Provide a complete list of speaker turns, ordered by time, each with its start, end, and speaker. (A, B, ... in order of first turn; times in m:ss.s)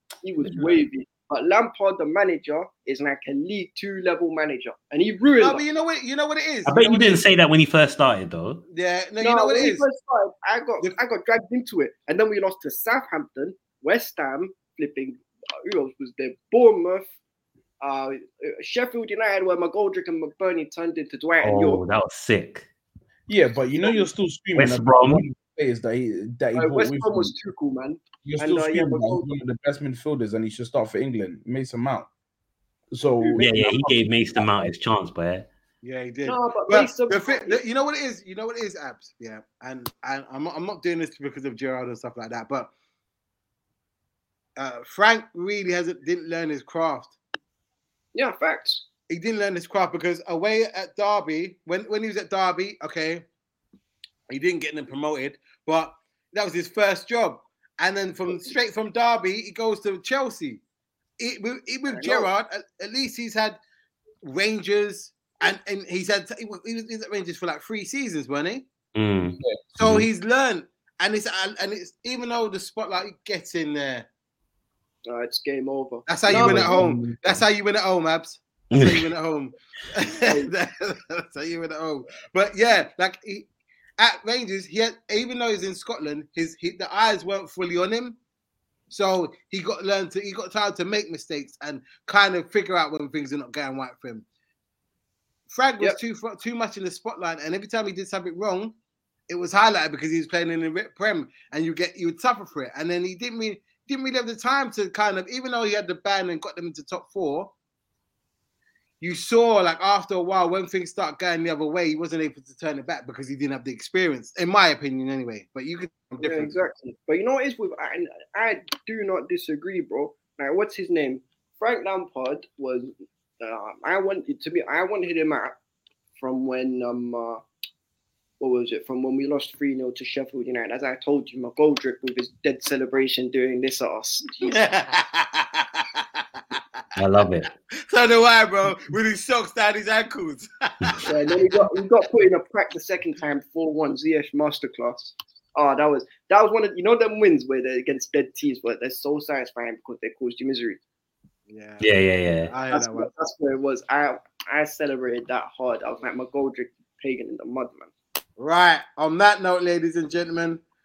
0:00.2-0:05.6 A
0:05.4-0:07.2 B
0:06.6-0:08.6 C
0:08.7-0:09.8 B
0:09.2-0:17.1 A
0:17.8-0:21.8 A
0:21.4-0:22.7 C
0:23.3-0:27.3 D
0:23.8-0:24.1 A
0:24.6-0:25.2 C
0:26.5-0:29.3 A
0:28.2-0:32.1 D
0:32.9-0:33.7 D
0:33.2-0:34.7 A
0:33.4-0:35.5 C
0:35.8-0:42.7 B
0:36.2-0:37.6 A
0:44.6-0:47.2 B
0:48.1-0:48.8 A
0:49.1-0:53.2 B
0:54.3-1:00.6 B
1:01.2-1:03.6 B
1:01.9-1:02.3 A
1:04.2-1:08.6 B
1:08.9-1:10.1 C
1:09.7-1:14.1 B
1:15.0-1:16.9 A
1:16.1-1:23.5 B
1:16.3-1:17.3 D
1:18.7-1:19.1 C
1:20.2-1:20.5 A
1:24.0-1:28.2 B
1:28.9-1:34.2 B
1:35.5-1:38.7 B
1:39.3-1:47.5 B
1:49.0-1:56.5 B
1:56.2-2:05.5 A
2:06.2-2:07.4 A
2:08.4-2:14.6 A
2:14.4-2:16.6 B
2:17.0-2:17.5 C
2:17.9-2:21.1 B
2:21.0-2:30.8 A
2:31.5-2:31.9 B
2:31.8-2:32.5 C
2:32.5-2:33.1 B
2:32.7-2:37.9 A
2:38.4-2:40.6 B